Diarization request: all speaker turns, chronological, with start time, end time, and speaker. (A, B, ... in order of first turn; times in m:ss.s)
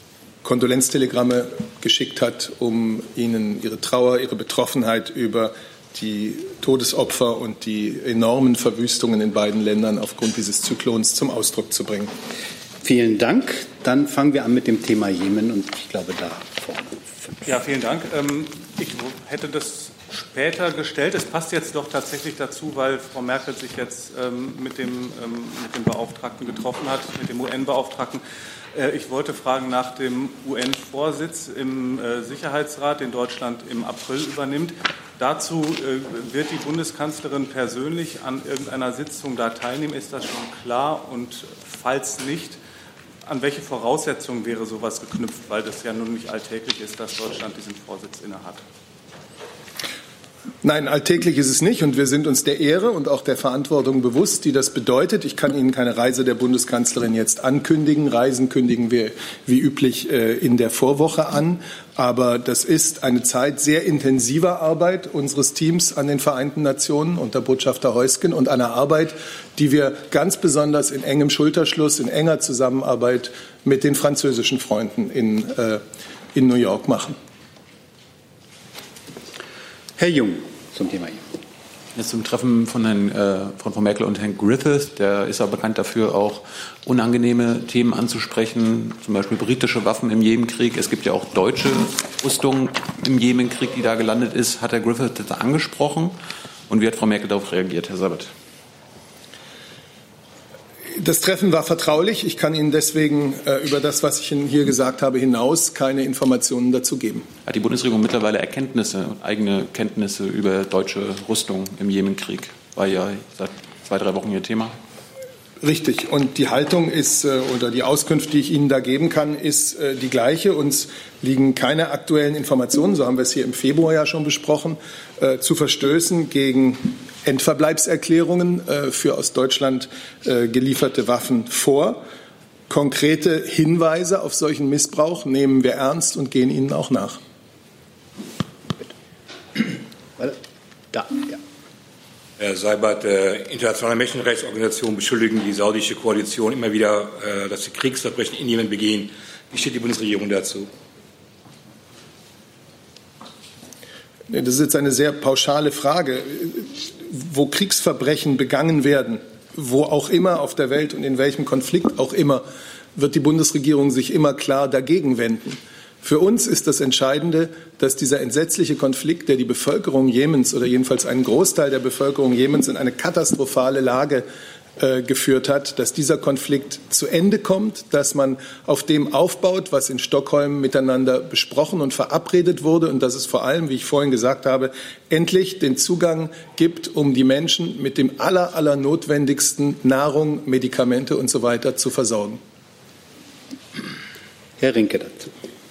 0:00.4-0:12.1 A
0:12.8-0:17.1 B
0:17.4-0:28.2 C
0:28.7-0:42.6 C
0:43.3-0:48.6 C
0:50.6-1:15.8 A
1:16.3-1:17.2 A
1:20.0-1:21.3 B
1:22.0-1:36.2 D
1:36.7-1:38.3 D
1:41.0-1:47.3 A
1:47.4-1:54.8 D
1:55.6-2:12.0 A
2:12.7-2:17.2 A
2:20.9-2:21.4 B
2:22.4-2:30.7 E
2:34.3-2:54.3 A
2:54.8-3:12.4 A
3:14.6-3:15.3 B